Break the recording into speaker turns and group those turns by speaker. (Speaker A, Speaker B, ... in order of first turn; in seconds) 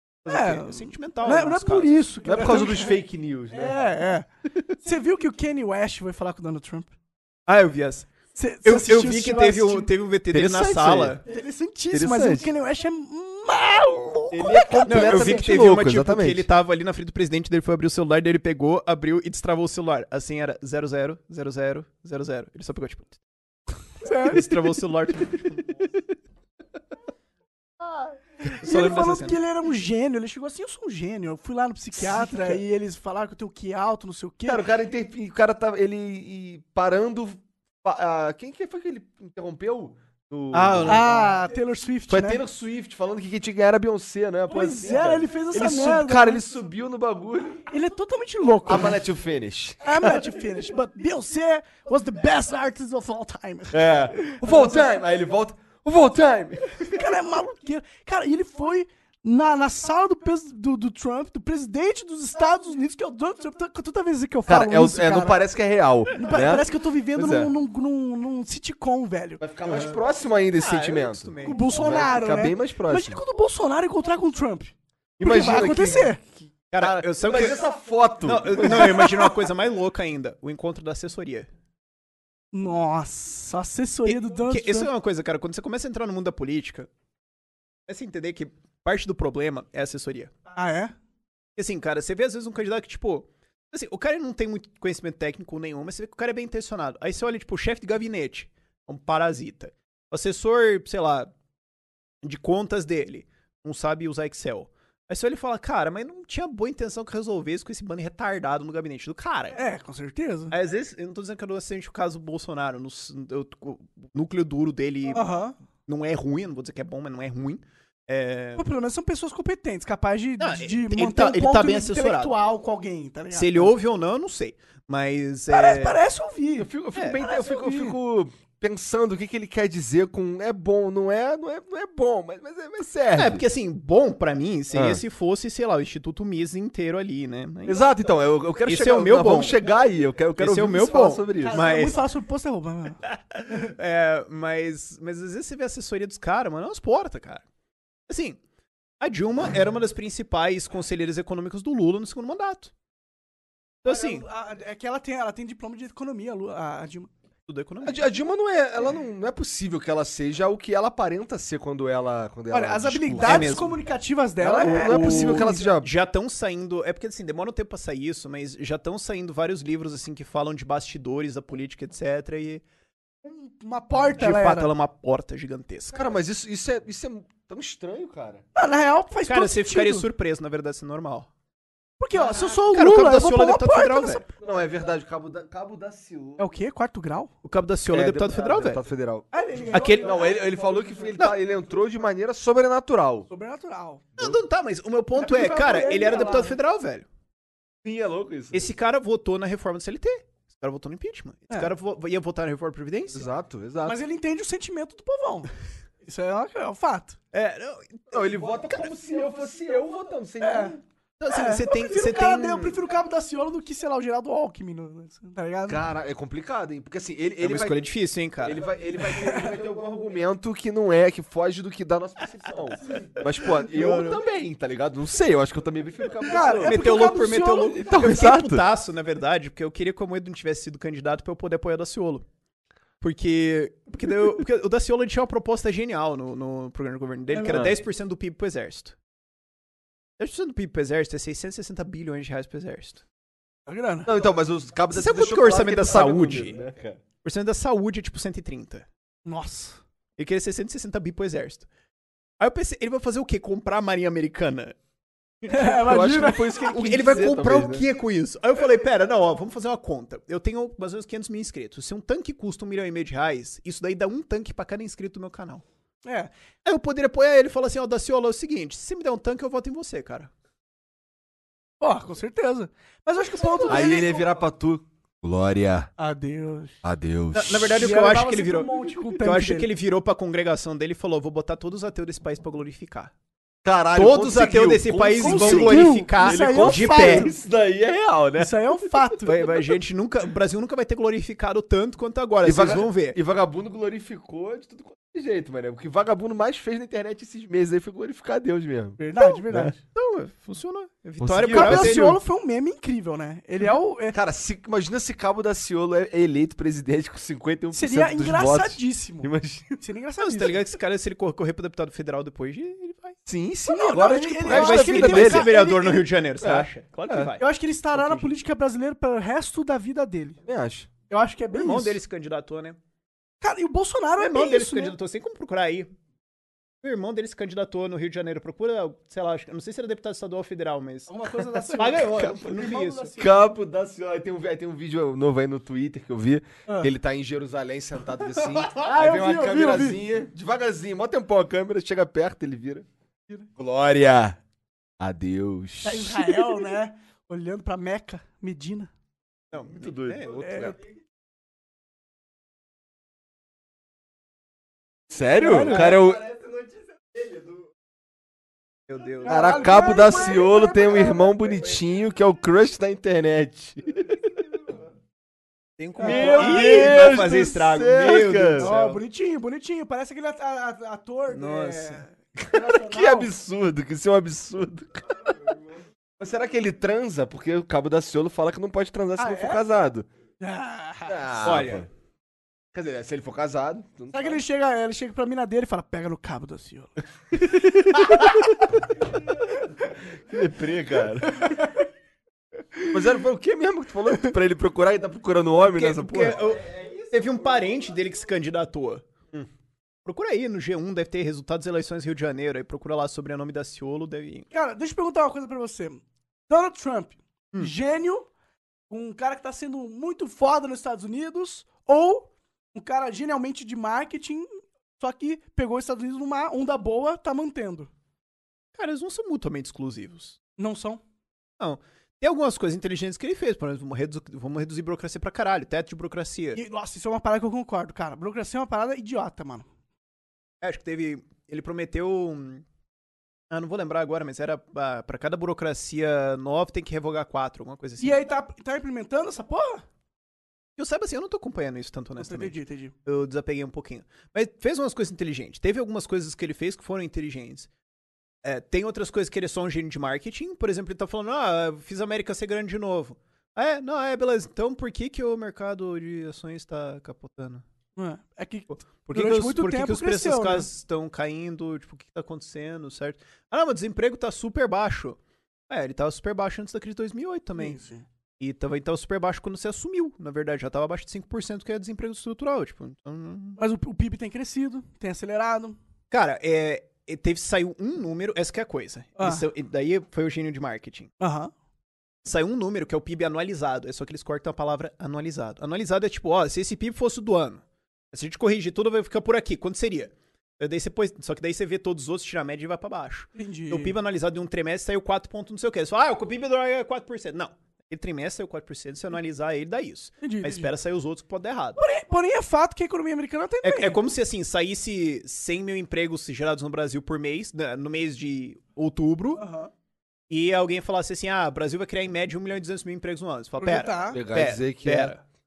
Speaker A: 0.2-1.9, 7.5-8.1, 8.6-11.2, 14.9-23.2, 24.2-25.8, 28.4-29.4, 40.5-41.0, 70.6-72.1, 76.7-77.6, 78.2-81.5, 84.0-86.9, 87.9-90.3, 91.5-101.3, 102.2-109.6, 110.5-115.3, 115.9-118.7, 120.4-122.3, 123.3-126.0, 133.1-137.8, 138.6-139.6, 140.3-142.0, 143.1-147.4, 148.1-148.4, 149.0-152.7, 153.8-154.2, 157.5-158.0, 163.2-163.7, 164.6-172.6, 174.2-176.0, 179.3-181.3, 182.3-184.2, 187.4-188.8, 189.7-190.1, 194.2-197.1, 198.5-203.2, 207.3-208.2, 211.2-212.8, 217.4-218.6, 223.8-224.1, 226.6-232.2, 233.0-238.9, 240.2-243.0, 244.9-246.6, 247.2-248.8, 250.2-251.7, 252.4-254.7, 255.4-255.8, 256.5-265.6, 266.6-270.3, 273.5-273.9, 277.3-283.1, 283.9-287.3, 289.2-293.2, 299.9-302.2, 310.2-313.2, 314.5-318.3, 321.5-322.8, 324.2-325.9, 326.8-331.1, 331.8-333.2, 349.5-350.7, 355.7-356.0, 358.9-359.7, 365.8-369.0, 371.3-372.0, 381.4-381.9, 395.7-399.0, 400.1-404.5, 418.7-420.4, 421.6-426.6, 430.6-432.6, 433.5-438.2, 440.8-447.7, 448.4-457.6, 459.0-465.2, 465.7-467.8, 468.4-473.6, 476.1-481.1, 482.2-501.8, 503.6-509.4, 510.3-515.2
Speaker B: 0.3-3.0, 3.5-4.3, 4.8-6.9, 8.3-9.9, 11.2-15.4, 24.0-24.5, 28.6-34.6, 40.9-42.4, 44.5-46.4, 47.7-49.0, 49.8-54.4, 56.9-65.4, 66.1-69.4, 71.4-76.2, 78.6-79.3, 82.5-84.9, 90.5-90.9, 109.5-110.5, 115.1-115.5, 118.6-123.7, 125.5-128.0, 141.4-143.0, 153.8-157.1, 162.5-165.6, 173.2-174.7, 178.5-180.1, 182.0-184.3, 186.4-187.3, 189.3-190.8, 193.3-194.0, 195.2-196.6, 203.8-205.5, 206.0-207.2, 210.4-210.8, 211.3-215.8, 219.2-219.5, 223.8-224.0, 226.2-227.8, 237.3-237.6, 243.7-244.1, 249.2-249.8, 255.5-256.6, 266.0-266.3, 271.8-274.2, 276.0-276.8, 277.8-279.7, 285.2-287.3, 288.4-289.4, 299.0-299.8, 301.5-304.1, 307.7-310.6, 313.7-316.0, 317.4-320.4, 321.1-322.0, 323.4-324.9, 331.1-333.2, 338.8-340.0, 345.8-348.9, 350.4-350.8, 355.4-356.0, 359.2-361.5, 366.0-367.3, 368.6-373.3, 379.2-379.6, 380.4-381.2, 384.1-386.9, 404.5-408.3, 408.9-417.9, 420.6-421.0, 426.5-429.6, 438.0-439.8, 442.2-442.9, 457.9-460.7, 467.6-468.0, 473.6-475.8, 479.2-479.4, 481.2-481.5, 493.4-493.9, 500.2-500.7, 501.8-503.9, 509.4-509.7, 513.6-514.2
Speaker C: 2.2-3.8, 10.3-11.2, 11.9-12.5, 14.3-16.5, 34.5-41.3, 42.1-47.6, 48.6-50.2, 53.7-56.9, 64.5-67.5, 69.4-73.2, 75.2-79.0, 126.6-133.4, 134.7-135.0, 137.7-141.6, 157.8-163.6, 164.4-165.9, 175.9-178.4, 184.4-186.4, 187.9-193.3, 197.8-198.7, 203.1-204.0, 208.1-210.8, 215.7-217.8, 218.4-227.2, 227.7-228.6, 237.5-237.8, 244.1-247.0, 255.6-257.8, 273.7-275.9, 276.8-277.9, 283.6-289.2, 292.4-299.7, 301.2-302.1, 304.1-309.7, 313.2-315.5, 316.4-317.3, 320.4-320.9, 331.8-332.6, 333.2-342.9, 343.6-344.4, 345.0-346.6, 349.7-350.8, 355.1-356.3, 359.2-364.2, 366.0-368.7, 372.4-375.5, 376.2-380.1, 381.1-381.9, 382.7-384.4, 390.3-391.5, 392.9-396.4, 514.1-515.1